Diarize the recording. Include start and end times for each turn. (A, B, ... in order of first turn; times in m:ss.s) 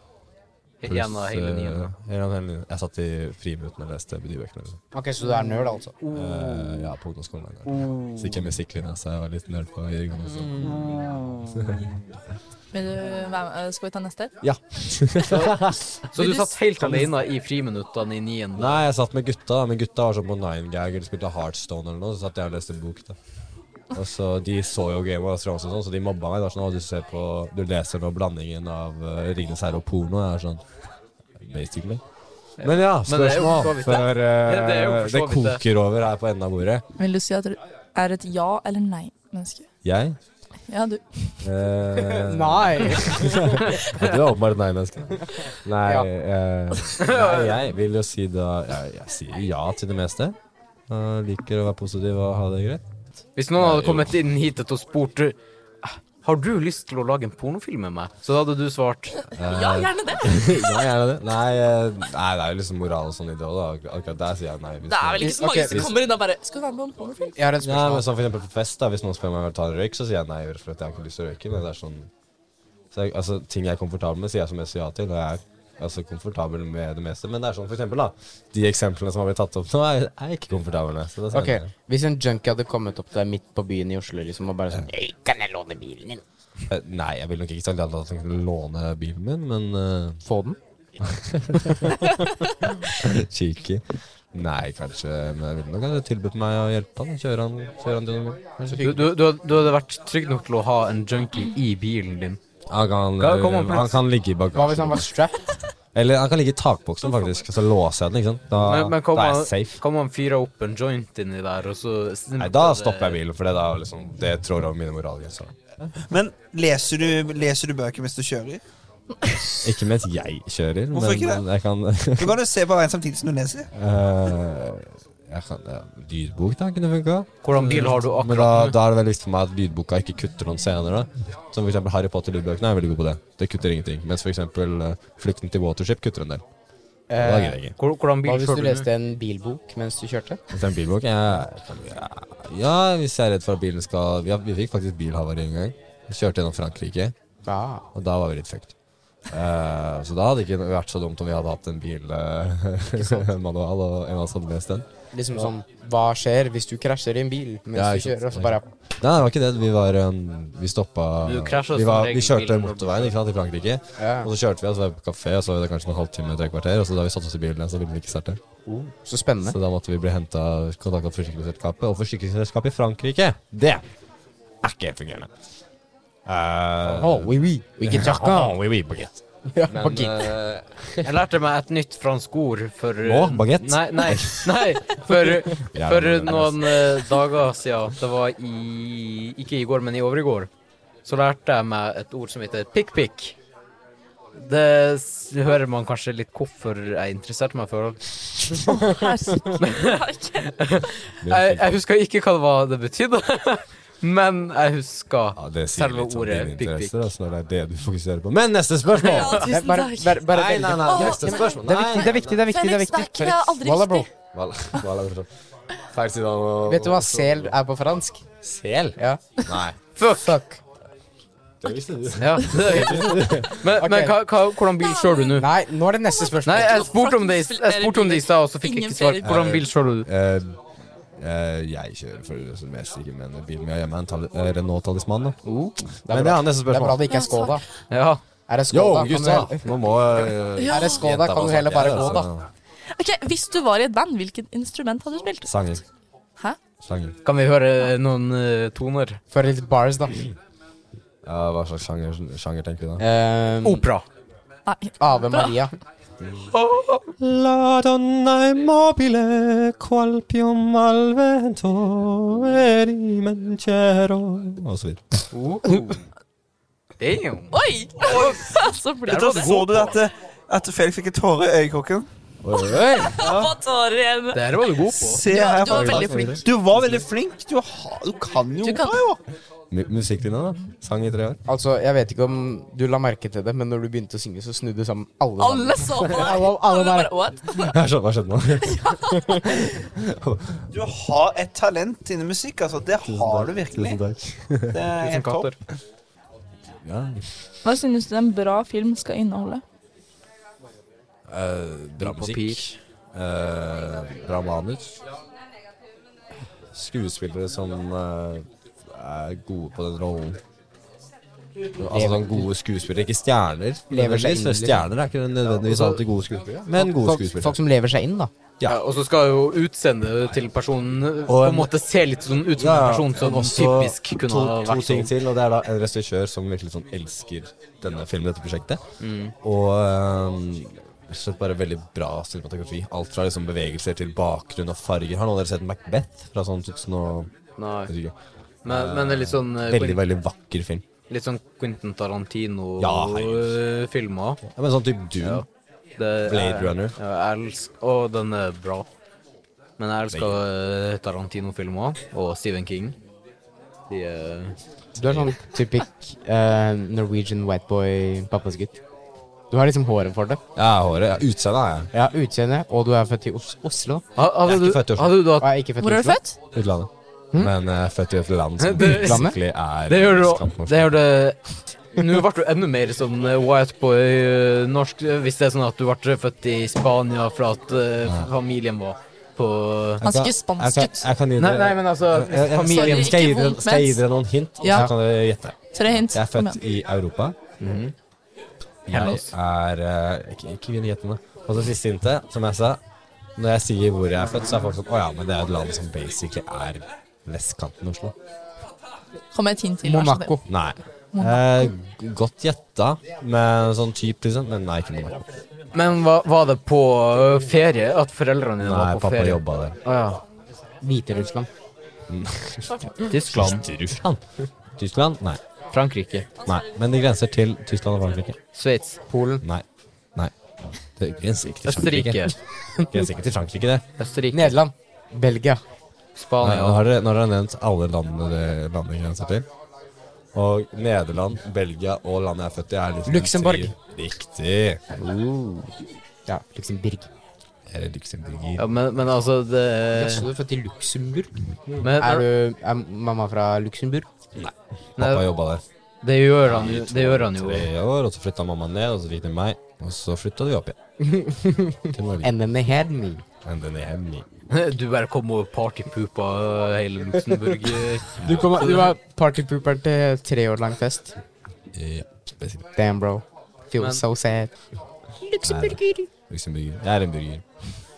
0:00.8-0:01.9 A
0:00.8-0:04.8 B
0:04.9-0:05.9 C
0:06.0-0:06.9 A
0:06.1-0:11.9 B
0:07.7-0:08.6 A
0:10.2-0:11.3 A
0:12.7-0:14.4 D
0:14.4-0:16.1 B
0:15.3-0:15.5 A
0:16.1-0:18.8 A
0:16.2-0:16.6 D
0:18.5-0:23.2 B
0:23.9-0:30.6 B
0:31.4-0:32.0 B
0:32.6-0:35.6 A
0:32.6-0:36.8 B
0:37.0-0:39.6 D
0:39.8-0:40.2 B
0:40.7-0:41.4 D
0:41.4-0:50.4 B
0:42.2-0:43.7 C
0:47.0-0:47.6 A
0:50.9-0:52.8 B
0:53.4-0:59.2 A
0:53.6-0:54.2 B
0:59.3-1:00.9 D
0:59.3-1:06.0 B
1:04.9-1:07.3 D
1:05.2-1:06.0 C
1:07.3-1:08.1 C
1:07.6-1:12.1 B
1:12.9-1:21.7 B
1:21.3-1:26.2 C
1:26.7-1:30.2 B
1:30.2-1:30.6 C
1:31.0-1:32.1 B
1:32.9-1:38.4 B
1:38.6-1:42.4 A
1:38.6-1:39.1 C
1:42.7-1:45.1 B
1:43.2-1:44.0 A
1:44.5-1:45.6 C
1:45.9-1:49.8 B
1:48.6-1:53.2 A
1:52.4-1:55.9 B
1:56.0-1:58.6 E
1:59.5-2:02.4 B
2:00.9-2:01.4 E
2:02.2-2:03.7 E
2:03.7-2:16.4 B
2:07.4-2:08.8 A
2:17.1-2:17.7 C
2:17.1-2:17.8 B
2:17.8-2:18.9 A
2:18.2-2:20.4 C
2:20.5-2:27.1 B
2:27.4-2:27.8 C
2:27.9-2:28.7 B
2:29.3-2:34.8 B
2:35.1-2:38.6 C
2:37.7-2:48.4 B
2:41.2-2:43.1 A
2:44.0-2:44.3 C
2:48.7-2:49.6 C
2:49.4-2:53.8 B
2:54.6-2:55.3 B
2:56.2-3:01.0 B
2:56.8-2:58.6 C
2:59.5-3:00.3 C
3:01.0-3:10.5 A
3:03.0-3:05.0 B
3:05.7-3:06.9 B
3:11.0-3:13.4 A
3:14.3-3:18.6 A
3:18.7-3:20.4 D
3:19.6-3:27.1 A
3:21.2-3:21.8 B
3:25.4-3:29.6 B
3:29.0-3:34.1 D
3:29.4-3:34.1 C
3:30.2-3:32.4 B
3:34.3-3:35.3 B
3:35.8-3:37.6 B
3:36.6-3:39.4 C
3:39.4-3:39.8 B
3:40.0-3:40.4 A
3:40.1-3:40.6 C
3:41.6-3:43.5 B
3:42.2-3:45.5 A
3:43.7-3:44.2 C
3:44.8-3:45.4 D
3:45.3-3:46.9 C
3:46.1-3:49.3 D
3:46.4-3:50.1 A
3:49.2-3:55.4 B
3:55.4-3:55.8 A
3:56.0-3:57.3 B
3:56.0-3:57.6 C
3:57.1-3:57.6 D
3:57.9-3:58.2 A
3:58.5-3:59.7 C
3:58.7-4:02.5 B
4:00.6-4:01.0 D
4:00.7-4:02.3 C
4:02.9-4:05.5 D
4:05.4-4:05.8 B
4:06.8-4:07.2 B
4:07.2-4:09.2 A
4:09.3-4:10.3 C
4:11.2-4:13.0 B
4:13.0-4:13.8 C
4:13.6-4:14.0 A
4:14.6-4:15.6 D
4:15.0-4:15.7 C
4:16.5-4:17.1 A
4:17.2-4:25.2 B
4:25.3-4:26.0 A
4:27.0-4:28.3 A
4:27.5-4:30.0 D
4:29.0-4:32.1 E
4:32.4-4:33.1 B
4:32.5-4:33.2 C
4:33.0-4:34.7 D
4:33.2-4:33.6 E
4:34.3-4:35.2 A
4:34.8-4:39.2 E
4:35.2-4:36.4 D
4:35.7-4:36.4 B
4:38.6-4:39.0 D
4:39.7-4:41.4 B
4:41.4-4:47.1 C
4:45.4-4:47.7 D
4:47.5-4:50.6 B
4:48.6-4:49.4 D
4:50.7-4:54.0 E
4:53.0-4:54.8 B
4:54.7-4:55.5 E
4:54.9-4:55.6 A
4:56.8-4:57.2 B
4:57.6-4:59.6 D
5:01.3-5:05.0 B
5:02.0-5:02.6 A
5:06.7-5:10.4 B
5:11.8-5:17.6 B
5:11.9-5:12.4 C
5:13.9-5:14.9 C
5:16.7-5:18.3 C
5:18.6-5:25.1 A
5:21.3-5:21.7 B
5:22.5-5:28.8 B
5:29.0-5:29.3 A
5:29.4-5:38.1 B
5:37.6-5:37.9 A
5:38.6-5:40.0 A
5:38.6-5:40.8 B
5:41.1-5:44.4 A
5:42.8-5:43.6 B
5:44.5-5:45.4 B
5:45.2-5:45.4 A
5:46.0-5:48.9 A
5:46.2-5:47.0 B
5:49.8-5:53.0 A
5:50.1-5:50.4 B
5:53.9-5:54.6 A
5:55.0-5:58.8 C
5:55.0-5:55.3 B
5:59.5-6:00.4 C
6:00.6-6:01.9 B
6:01.9-6:04.0 C
6:04.2-6:05.5 A
6:04.4-6:05.3 B
6:05.4-6:06.2 C
6:05.8-6:06.4 D
6:06.5-6:11.0 B
6:08.6-6:20.0 A
6:08.8-6:09.4 C
6:20.0-6:27.4 B
6:20.0-6:21.1 D
6:21.4-6:23.2 A
6:22.6-6:24.1 D
6:24.6-6:24.9 D
6:25.7-6:26.6 D
6:27.6-6:27.9 A
6:28.9-6:32.8 B
6:28.9-6:29.3 A
6:33.4-6:38.1 B
6:39.3-6:40.3 D
6:39.8-6:40.5 C
6:40.5-6:45.3 B
6:41.1-6:41.7 D
6:45.7-6:50.2 A
6:48.6-6:49.8 B
6:50.8-6:51.5 C
6:52.1-6:55.4 B
6:53.1-6:53.6 A
6:55.7-6:56.3 A
6:56.4-6:58.4 B
6:58.5-6:59.0 A
6:59.1-6:59.4 C
7:00.2-7:03.8 B
7:01.6-7:02.3 A
7:04.0-7:04.5 A
7:04.3-7:05.6 C
7:06.2-7:06.9 A
7:06.4-7:09.5 B
7:10.3-7:14.8 B
7:13.0-7:13.7 C
7:15.0-7:15.7 C
7:16.3-7:17.1 C
7:17.7-7:18.6 B
7:18.6-7:20.3 A
7:19.9-7:24.1 C
7:21.8-7:22.3 A
7:24.3-7:25.6 B
7:25.0-7:25.3 A
7:26.0-7:27.7 A
7:26.4-7:30.8 B
7:31.0-7:33.2 C
7:31.9-7:32.3 B
7:33.4-7:34.2 B
7:34.5-7:39.0 A
7:38.2-7:41.1 C
7:41.7-7:42.7 B
7:42.8-7:44.6 C
7:43.8-7:44.0 A
7:45.2-7:46.1 C
7:45.4-7:47.5 B